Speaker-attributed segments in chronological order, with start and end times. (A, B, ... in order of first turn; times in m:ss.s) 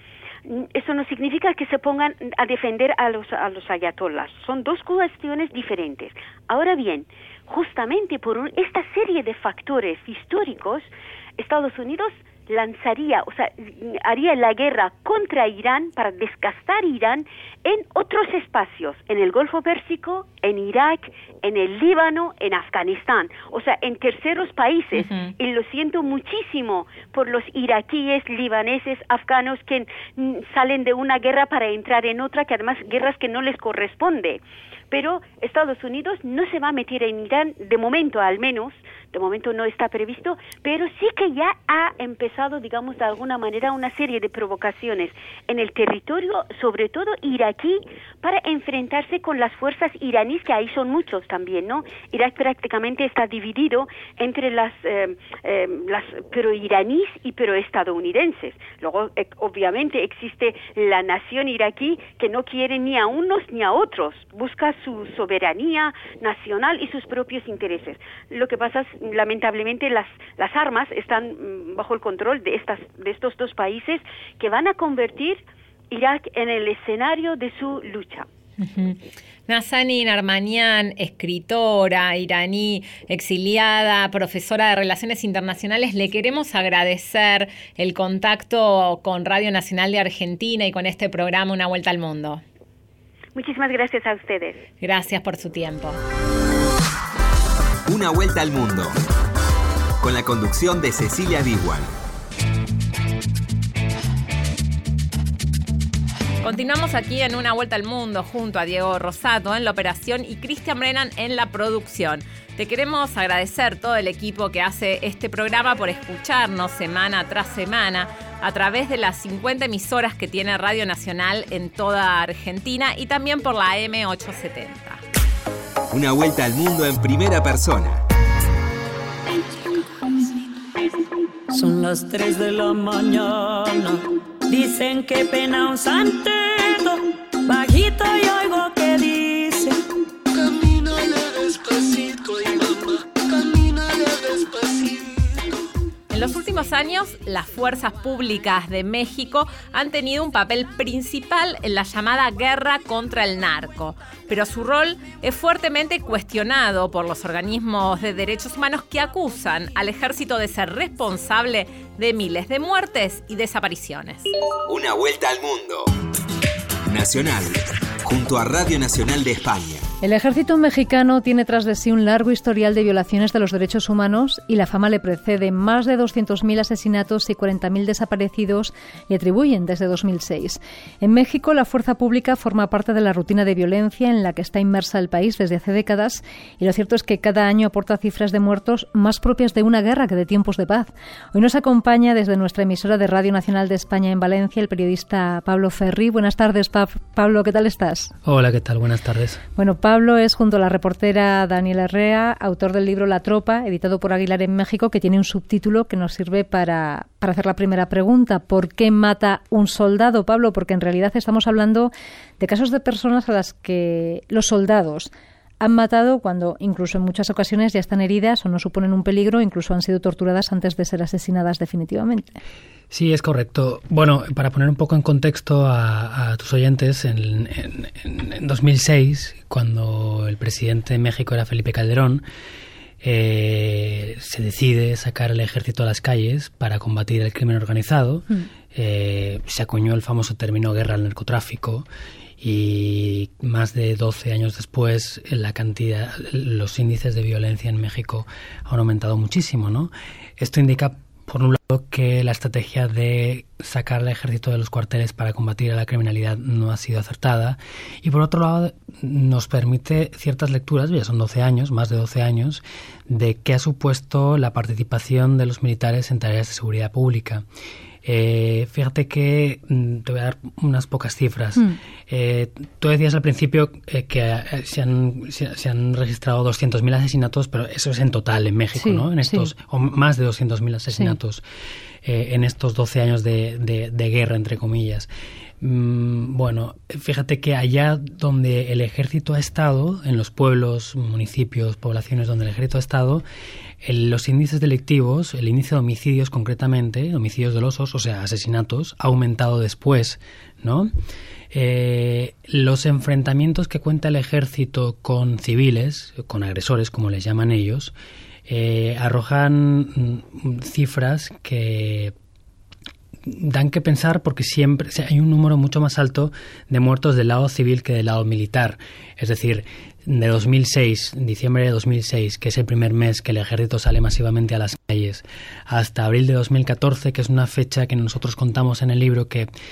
0:00.4-1:18.3 A
0:25.0-0:25.3 B
1:18.6-1:32.4 B
1:33.3-1:34.6 A
1:34.8-1:36.0 B
1:37.9-1:38.9 C
1:40.0-1:41.9 C
1:46.4-2:05.0 B
2:05.9-2:08.0 C
2:11.5-2:19.8 D
2:20.3-2:25.6 D
2:26.1-2:44.3 B
2:44.6-2:45.9 C
2:46.9-2:49.9 C
2:50.0-3:18.1 E
3:18.2-3:19.4 F
3:19.6-3:42.4 E
3:42.9-3:52.2 F
3:53.0-4:01.8 F
4:02.4-4:27.4 F
4:28.0-4:41.4 F
4:38.8-4:39.5 E
4:40.9-4:41.2 E
4:42.0-4:45.1 F
4:45.6-4:53.2 F
4:53.8-5:00.9 F
5:01.5-5:07.9 F
5:08.5-5:12.1 F
5:13.2-5:29.5 F